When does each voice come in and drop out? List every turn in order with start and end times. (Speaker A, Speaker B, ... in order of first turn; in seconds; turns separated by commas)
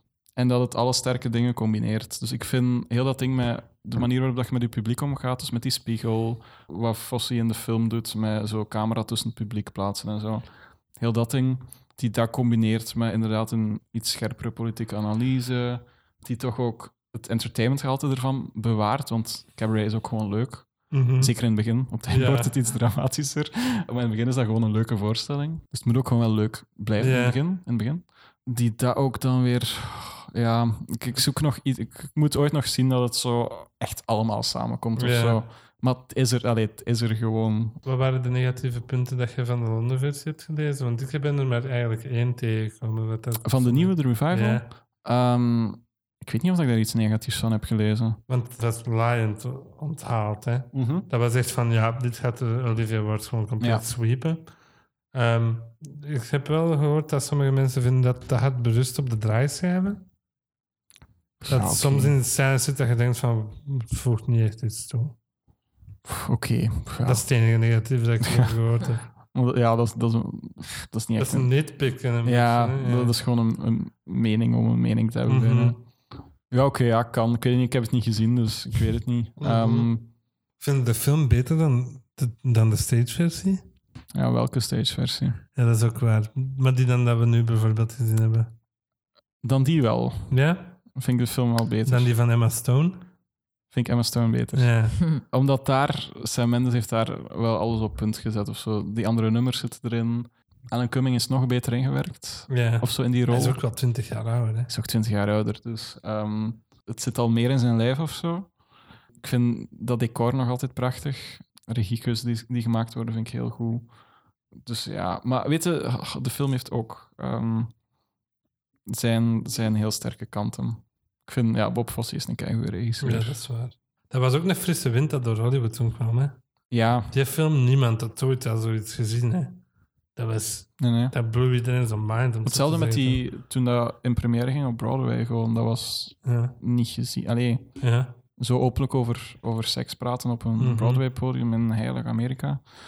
Speaker A: 0.4-10.5, Speaker A: 11.0-37.8, Speaker B: 20.9-21.3, Speaker B: 22.1-22.5, Speaker B: 27.0-27.4, Speaker B: 35.0-35.4, Speaker B: 37.8-44.6, Speaker A: 43.4-48.2, Speaker B: 48.3-54.5, Speaker A: 50.7-51.1, Speaker A: 53.6-53.9, Speaker B: 55.1-60.0, Speaker A: 61.4-62.2, Speaker B: 61.5-65.2, Speaker A: 66.0-67.2, Speaker B: 67.0-69.0, Speaker A: 68.2-68.5, Speaker A: 69.3-71.7, Speaker B: 71.2-73.1, Speaker A: 72.2-75.8, Speaker B: 75.3-75.8, Speaker A: 76.5-80.1, Speaker B: 79.4-79.9, Speaker B: 80.6-83.6, Speaker A: 84.1-85.4, Speaker B: 85.6-88.5, Speaker A: 89.4-90.4, Speaker B: 90.3-90.8, Speaker A: 91.0-92.1, Speaker B: 91.9-93.1, Speaker A: 93.7-103.6, Speaker B: 94.5-95.0, Speaker B: 102.5-104.7, Speaker A: 104.7-108.5, Speaker A: 109.2-113.9, Speaker A: 114.6-117.7, Speaker A: 118.9-123.4, Speaker B: 123.0-126.4, Speaker A: 126.7-127.1, Speaker B: 127.1-129.6, Speaker B: 130.2-133.2, Speaker A: 130.8-131.2, Speaker A: 132.4-137.8, Speaker B: 136.2-136.6, Speaker B: 137.8-138.1, Speaker A: 138.4-142.7, Speaker B: 140.6-141.0